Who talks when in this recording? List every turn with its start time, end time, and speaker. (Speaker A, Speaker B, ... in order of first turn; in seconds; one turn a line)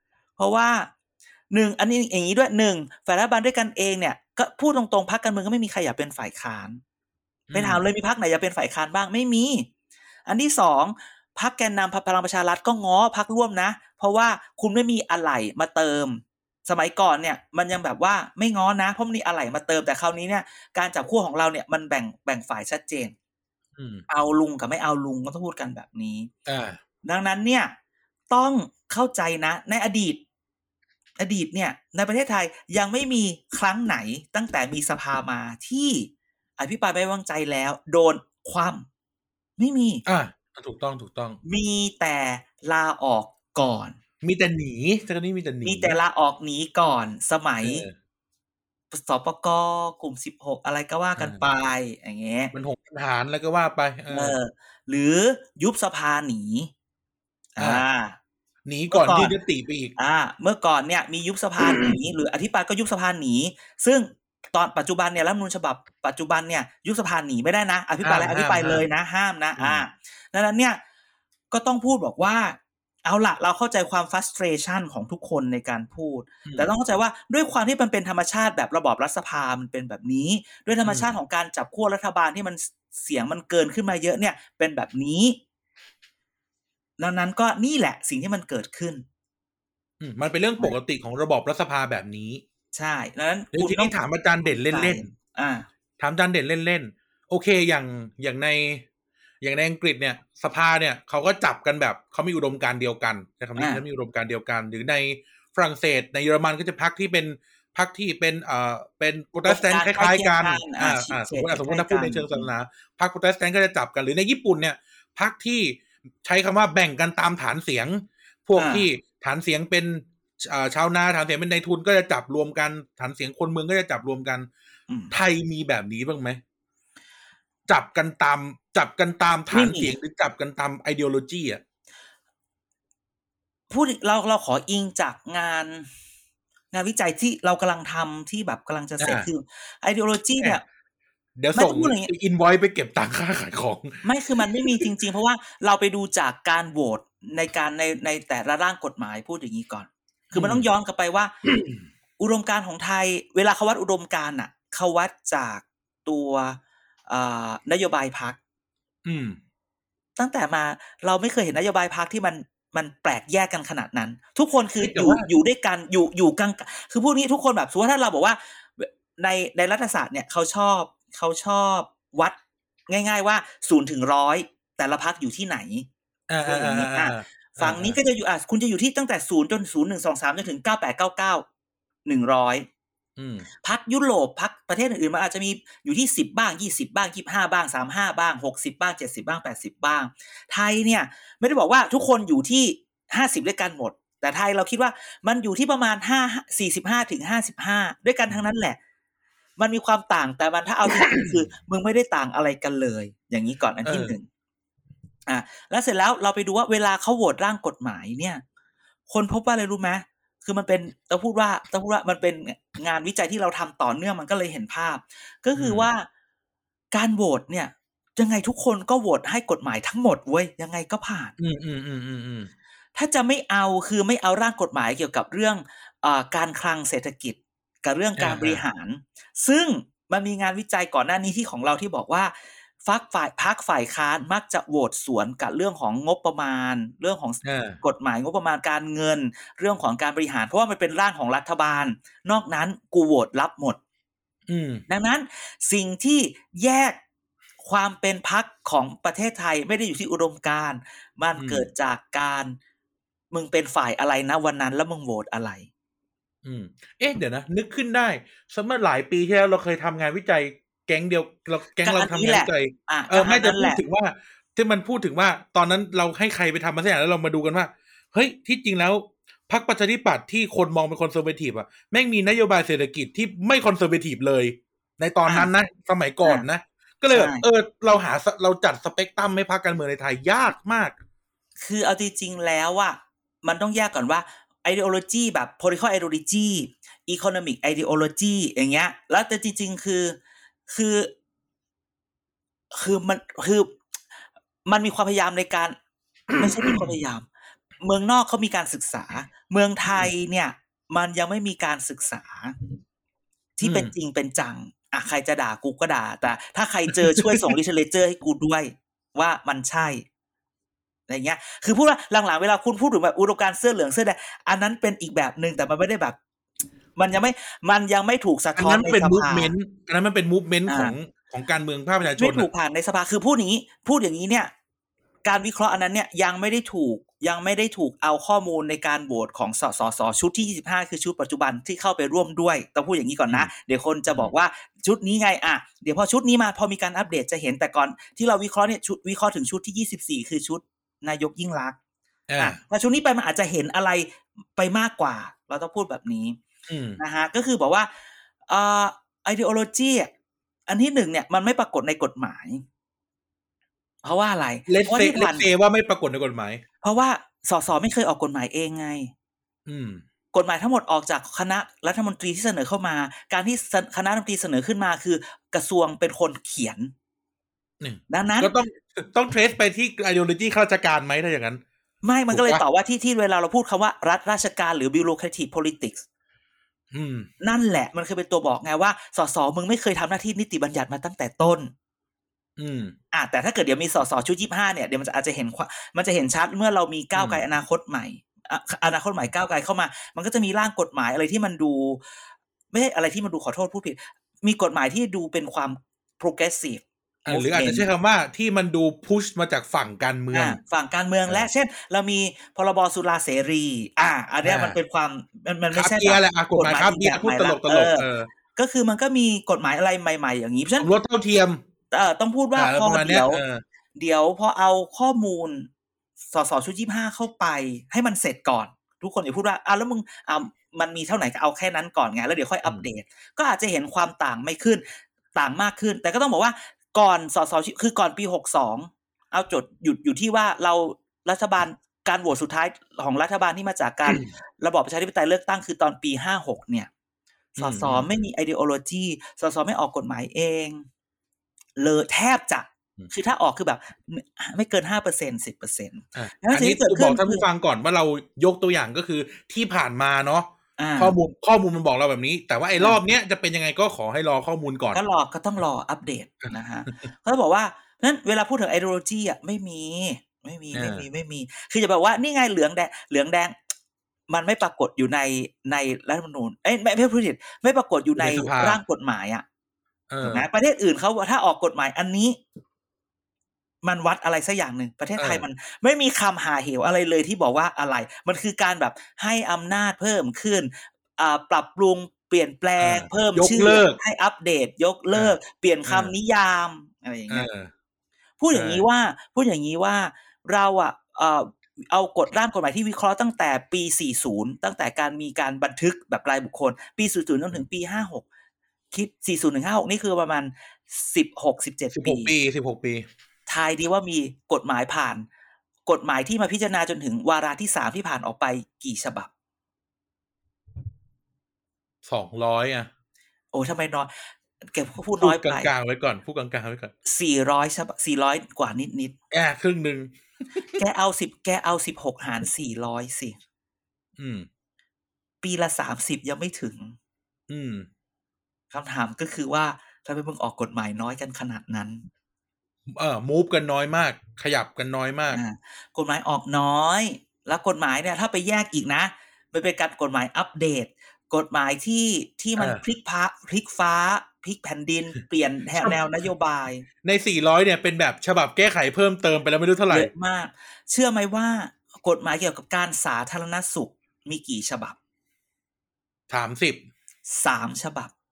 Speaker A: 0.4-0.9
Speaker A: 1.5-6.8
Speaker B: 7.5-7.8
Speaker A: 7.5-9.7
Speaker A: 10.3-23.1
Speaker B: 23.8-24.1
Speaker A: 24.1-26.3
Speaker B: 26.5-26.8
Speaker A: 27.0-27.7
Speaker A: 28.3-30.2
Speaker A: 31.2-38.9
Speaker A: 39.6-40.0
Speaker B: 40.1-41.4
Speaker A: 41.5-44.0
Speaker B: 44.2-46.0
Speaker A: 45.6-47.9
Speaker B: 47.6-47.9
Speaker A: 48.9-52.5
Speaker B: 51.2-51.4
Speaker B: 52.5-54.4
Speaker A: 54.1-56.7
Speaker A: 57.6-58.2
Speaker B: 57.6-57.9
Speaker B: 58.7-59.9
Speaker A: 58.9-59.3
Speaker A: 60.0-70.8
Speaker B: 61.6-62.0
Speaker B: 68.0-68.9
Speaker B: 69.6-69.9
Speaker A: 71.5-85.4
Speaker B: 76.5-76.7
Speaker B: 80.8-81.1
Speaker A: 87.0-89.0
Speaker B: 90.0-92.4
Speaker A: 92.7-94.0
Speaker B: 93.5-95.1
Speaker A: 94.7-95.7
Speaker B: 96.0-98.8
Speaker B: 99.4-124.5
Speaker A: 103.6-103.8
Speaker A: 109.5-112.5
Speaker A: 118.6-118.9
Speaker B: 125.1-126.4
Speaker B: 127.7-131.6
Speaker A: 129.5-130.0
Speaker A: 133.7-135.9
Speaker A: 136.7-140.6
Speaker B: 139.0-139.3
Speaker B: 141.4-144.0
Speaker A: 141.6-142.1
Speaker A: 144.0-151.3
Speaker B: 150.3-150.7
Speaker B: 151.5-151.8
Speaker A: 152.2-158.4
Speaker B: 159.1-159.4
Speaker A: 160.2-172.4
Speaker B: 164.8-165.3
Speaker A: 172.9-175.9
Speaker B: 176.3-178.0
Speaker A: 176.4-181.5
Speaker A: 182.1-182.7
Speaker B: 183.2-183.5
Speaker A: 183.6-198.8
Speaker A: 199.6-204.3
Speaker B: 201.0-201.3
Speaker B: 203.8-204.2
Speaker A: 205.3-208.4
Speaker A: 209.1-216.1
Speaker B: 215.6-215.9
Speaker A: 216.9-221.3
Speaker B: 221.4-222.5
Speaker A: 223.0-243.8
Speaker B: 228.2-228.6
Speaker B: 237.4-237.8
Speaker B: 244.5-244.8
Speaker A: 244.9-247.0
Speaker A: 247.6-252.6
Speaker B: 251.4-251.7
Speaker A: 253.3-255.7
Speaker B: 256.4-281.0
Speaker A: 261.8-263.8
Speaker A: 275.2-275.5
Speaker A: 277.1-277.4
Speaker A: 281.6-290.2
Speaker A: 290.7-291.1
Speaker A: 292.7-293.8
Speaker A: 294.7-295.8
Speaker B: 296.3-297.0
Speaker A: 296.4-297.3
Speaker A: 297.8-302.6
Speaker A: 303.6-310.1
Speaker B: 303.6-303.9
Speaker B: 306.9-307.4
Speaker A: 311.1-316.2
Speaker A: 317.0-319.5
Speaker B: 318.6-322.5
Speaker A: 320.7-320.9
Speaker A: 322.2-324.5
Speaker A: 325.2-341.8
Speaker B: 342.3-342.6
Speaker A: 342.4-346.4
Speaker B: 346.7-347.0
Speaker A: 347.0-347.9
Speaker A: 348.5-350.1
Speaker A: 350.7-352.6
Speaker A: 354.0-355.5
Speaker B: 354.7-356.6
Speaker A: 356.8-359.1
Speaker B: 359.7-360.0
Speaker A: 360.3-366.9
Speaker B: 367.8-371.6
Speaker A: 368.1-368.5
Speaker A: 372.0-376.1
Speaker B: 372.3-372.6
Speaker B: 376.9-377.3
Speaker A: 377.4-381.7
Speaker B: 382.6-382.9
Speaker A: 383.1-392.0
Speaker B: 387.1-387.4
Speaker A: 392.7-397.9
Speaker B: 397.3-400.6
Speaker A: 400.3-410.9
Speaker B: 404.4-404.8
Speaker B: 405.7-408.3
Speaker B: 410.8-411.6
Speaker A: 411.9-413.4
Speaker B: 412.6-413.6
Speaker A: 413.9-415.7
Speaker A: 416.3-424.8
Speaker A: 425.4-436.9
Speaker B: 437.6-438.1
Speaker A: 437.6-440.9
Speaker A: 441.8-447.4
Speaker B: 446.1-455.0
Speaker A: 450.8-451.2
Speaker A: 454.9-463.6
Speaker B: 460.7-461.1
Speaker A: 464.3-469.4
Speaker B: 468.2-468.8
Speaker B: 470.1-470.5
Speaker A: 470.2-472.4
Speaker A: 473.8-487.5
Speaker B: 475.2-475.5
Speaker B: 482.8-484.0
Speaker B: 485.1-486.1
Speaker B: 487.3-487.7
Speaker A: 488.4-498.2
Speaker B: 488.5-488.9
Speaker A: 498.9-502.3
Speaker B: 502.0-503.1
Speaker A: 503.5-505.3
Speaker A: 505.9-509.3
Speaker B: 512.0-512.9
Speaker A: 513.5-514.1
Speaker A: 514.7-515.7
Speaker B: 515.2-516.9
Speaker A: 517.1-519.1
Speaker B: 519.3-520.8
Speaker A: 520.8-523.4
Speaker B: 524.2-524.5
Speaker A: 525.4-527.0
Speaker B: 527.5-527.9
Speaker A: 528.7-532.0
Speaker B: 532.9-535.4
Speaker A: 535.3-546.9
Speaker B: 542.6-542.8
Speaker B: 547.0-550.1
Speaker A: 549.9-555.0
Speaker B: 556.3-556.9
Speaker A: 557.3-558.1